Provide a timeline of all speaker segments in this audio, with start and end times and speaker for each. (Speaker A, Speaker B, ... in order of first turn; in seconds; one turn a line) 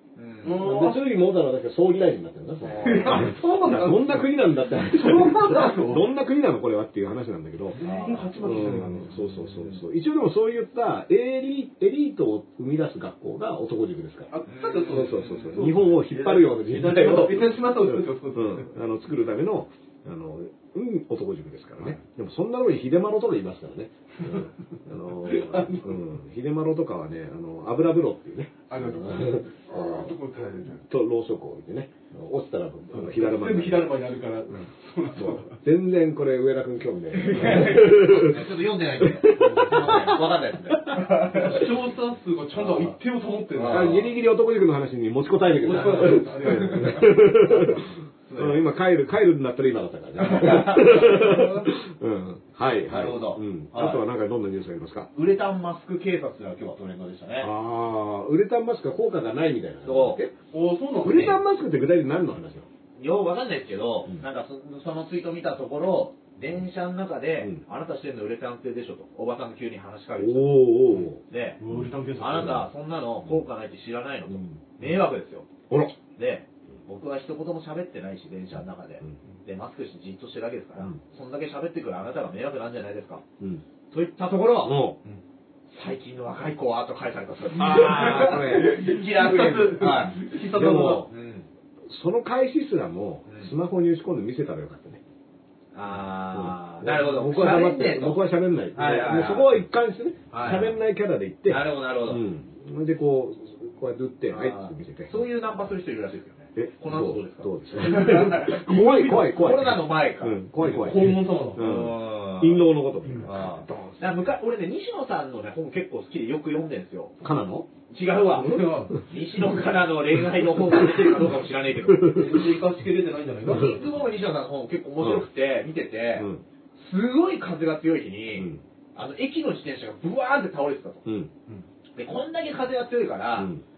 Speaker A: 0.2-0.7
Speaker B: 0.4-1.0
Speaker C: 0.5-7.8
Speaker A: 2.6-3.4
Speaker B: 2.8-6.0
Speaker B: 7.8-9.2
Speaker A: 7.8-9.8
Speaker C: 8.4-14.3
Speaker B: 14.3-18.7
Speaker A: 14.5-15.7
Speaker C: 14.8-30.1
Speaker B: 25.3-26.0
Speaker B: 28.7-30.8
Speaker C: 30.8-33.9
Speaker B: 32.9-35.6
Speaker C: 35.1-41.0
Speaker A: 37.2-41.7
Speaker B: 37.4-37.7
Speaker B: 39.4-39.6
Speaker B: 41.2-44.1
Speaker A: 42.5-43.0
Speaker A: 43.5-44.1
Speaker C: 43.6-55.1
Speaker B: 45.5-47.8
Speaker A: 45.7-48.6
Speaker A: 50.2-51.7
Speaker A: 52.7-54.0
Speaker A: 55.1-57.5
Speaker C: 57.4-60.3
Speaker A: 59.9-60.2
Speaker B: 60.5-61.4
Speaker C: 61.0-62.7
Speaker A: 61.1-61.4
Speaker A: 63.0-71.6
Speaker C: 70.2-72.6
Speaker B: 71.6-72.7
Speaker A: 72.2-75.5
Speaker C: 74.3-74.9
Speaker C: 75.7-76.0
Speaker A: 76.2-83.2
Speaker A: 83.9-84.8
Speaker C: 84.6-85.0
Speaker A: 85.7-90.2
Speaker C: 87.5-88.8
Speaker B: 87.6-91.1
Speaker C: 90.5-91.1
Speaker A: 90.8-91.5
Speaker C: 91.9-95.0
Speaker A: 93.3-93.5
Speaker A: 95.7-98.2
Speaker C: 96.3-105.2
Speaker A: 98.7-99.6
Speaker A: 100.3-100.7
Speaker A: 101.5-102.2
Speaker A: 104.3-112.7
Speaker C: 106.6-114.0
Speaker B: 108.1-108.6
Speaker B: 110.6-111.8
Speaker A: 113.2-117.2
Speaker C: 117.2-117.7
Speaker A: 117.9-122.4
Speaker B: 118.3-119.1
Speaker C: 118.5-118.7
Speaker C: 120.8-121.1
Speaker C: 121.8-122.5
Speaker B: 122.1-123.9
Speaker A: 123.4-131.1
Speaker C: 123.5-123.8
Speaker C: 125.0-125.3
Speaker C: 126.2-126.4
Speaker C: 128.3-128.6
Speaker C: 131.1-131.3
Speaker A: 132.0-133.5
Speaker C: 133.4-133.6